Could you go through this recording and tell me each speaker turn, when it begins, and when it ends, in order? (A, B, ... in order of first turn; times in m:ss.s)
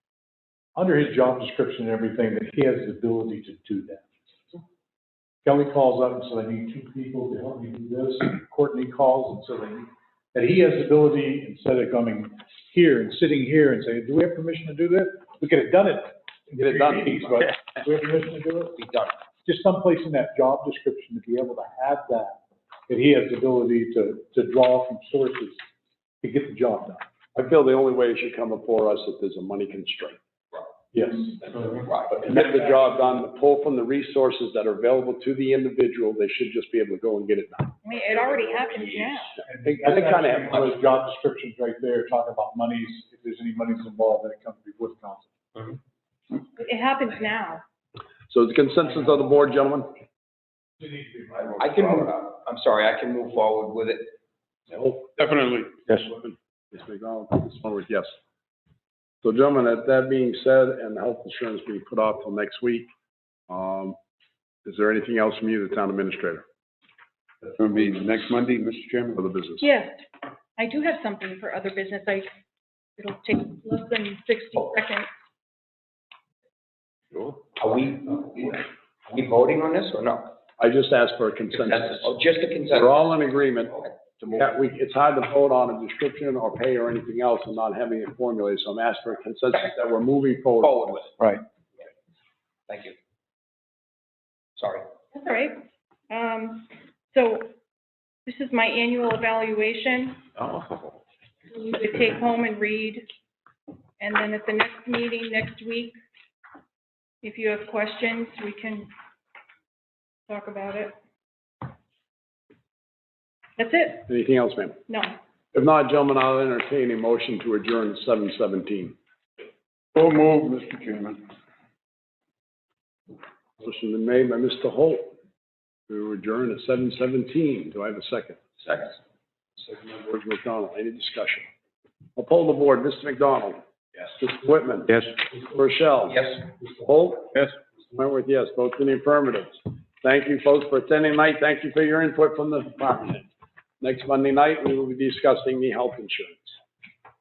0:00.7-0:04.1 A
0:05.4-0:18.8 A
0:16.6-0:17.6 B
0:18.8-0:19.1 C
0:19.4-0:25.6 A
0:26.2-0:27.0 A
0:27.3-0:30.2 B
0:30.9-0:32.8 A
0:31.6-0:32.2 C
0:32.2-0:37.8 B
0:37.8-0:39.4 D
0:38.6-0:39.1 C
0:39.5-0:45.3 A
0:39.6-0:40.8 B
0:46.4-0:47.6 D
0:48.3-0:50.0 B
0:50.8-0:52.0 A
0:51.6-0:54.1 C
0:54.7-0:58.1 B
0:59.2-1:02.9 B
1:03.5-1:04.0 B
1:04.6-1:06.4 B
1:07.6-1:09.2 E
1:09.2-1:09.6 B
1:09.6-1:10.0 D
1:10.6-1:12.3 D
1:13.0-1:15.1 D
1:17.6-1:20.4 C
1:20.6-1:22.1 B
1:21.5-1:23.0 C
1:22.7-1:30.8 B
1:23.8-1:24.3 C
1:30.6-1:31.1 C
1:32.7-1:33.0 C
1:34.6-1:34.9 C
1:35.1-1:37.5 D
1:38.2-1:40.2 D
1:40.5-1:40.8 E
1:41.5-1:43.0 D
1:44.0-1:45.9 D
1:47.2-1:48.9 D
1:50.3-1:51.0 D
1:53.6-1:54.0 D
1:54.1-1:54.8 B
1:54.9-1:55.2 D
1:55.5-1:59.0 B
1:59.9-2:01.2 E
2:03.6-2:05.1 B
2:05.9-2:08.4 B
2:08.6-2:08.9 C
2:09.6-2:11.5 B
2:12.2-2:23.3 B
2:23.8-2:26.6 B